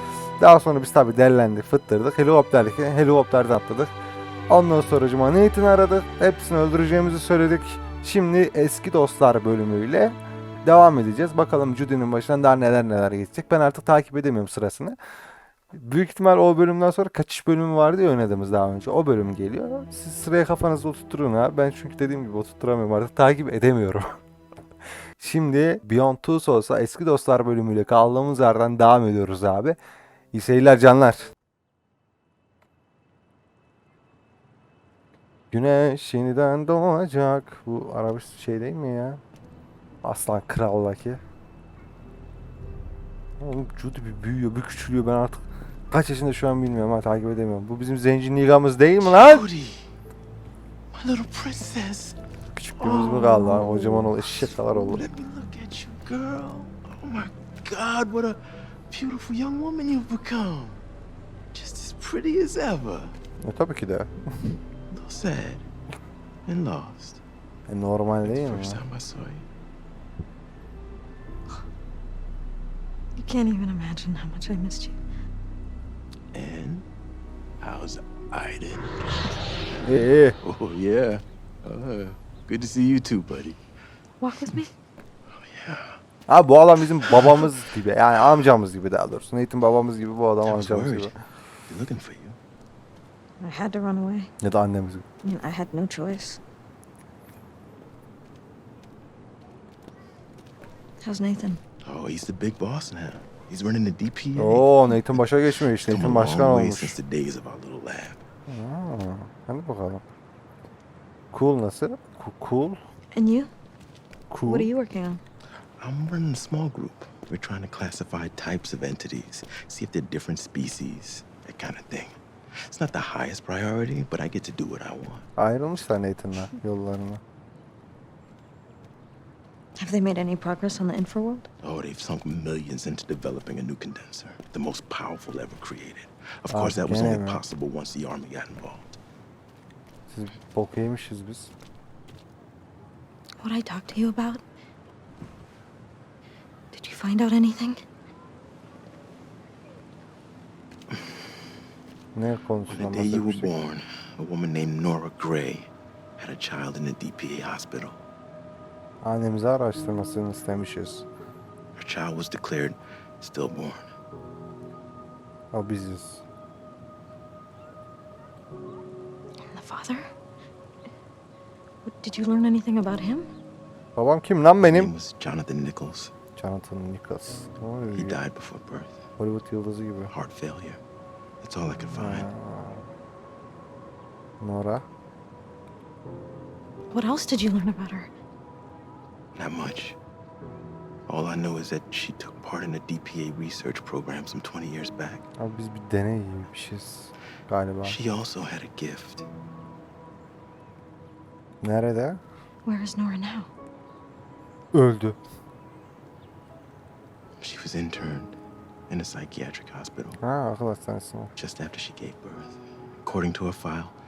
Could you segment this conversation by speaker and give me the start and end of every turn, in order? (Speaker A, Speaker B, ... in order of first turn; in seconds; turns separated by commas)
Speaker A: 0.4-3.9, Speaker A: 4.5-15.0, Speaker A: 15.7-24.2, Speaker A: 25.2-29.8, Speaker A: 30.3-31.3, Speaker A: 35.5-39.2, Speaker A: 40.0-41.2, Speaker A: 43.4-49.4, Speaker B: 49.0-49.9, Speaker B: 50.9-60.8, Speaker A: 52.7-55.1, Speaker B: 61.5-63.1, Speaker A: 63.4-64.6, Speaker B: 64.9-65.7, Speaker B: 66.5-67.2, Speaker A: 67.7-68.8, Speaker B: 68.2-69.4, Speaker C: 73.2-75.0, Speaker B: 76.3-76.9, Speaker B: 77.6-79.9, Speaker A: 79.8-80.4, Speaker B: 80.4-83.6, Speaker C: 84.2-84.7, Speaker B: 85.3-86.0, Speaker A: 86.3-91.1, Speaker B: 87.0-87.5, Speaker B: 90.4-91.1, Speaker B: 91.7-92.4, Speaker C: 93.4-94.3, Speaker A: 94.4-95.0, Speaker C: 95.2-96.4, Speaker C: 101.0-101.6, Speaker B: 101.8-108.2, Speaker A: 104.3-107.0, Speaker A: 108.5-110.0, Speaker A: 111.3-112.8, Speaker C: 113.1-113.5, Speaker A: 114.3-114.7, Speaker C: 114.5-115.2, Speaker B: 115.8-125.2, Speaker A: 125.4-127.2, Speaker C: 129.8-131.5, Speaker B: 131.6-138.9, Speaker A: 136.5-137.4, Speaker A: 140.1-141.5, Speaker C: 143.4-144.4, Speaker C: 146.7-147.8, Speaker B: 150.9-151.3, Speaker A: 152.1-153.5, Speaker B: 152.7-158.0, Speaker A: 159.0-161.1, Speaker B: 161.8-163.9, Speaker A: 165.5-166.2, Speaker C: 169.4-170.1, Speaker C: 171.8-173.3, Speaker A: 173.9-174.9, Speaker B: 174.6-176.1, Speaker A: 176.3-178.2, Speaker B: 177.9-179.0, Speaker A: 179.2-180.1, Speaker B: 180.1-180.8, Speaker B: 181.4-182.3, Speaker A: 181.9-182.9, Speaker A: 184.4-184.8, Speaker C: 186.9-188.1, Speaker B: 189.3-190.0, Speaker B: 191.1-195.2, Speaker A: 195.4-198.0, Speaker B: 197.8-199.2, Speaker A: 201.6-202.2, Speaker C: 202.6-203.5, Speaker A: 204.7-205.2, Speaker B: 207.4-208.3, Speaker B: 208.9-210.2, Speaker A: 210.2-211.3, Speaker B: 211.3-213.9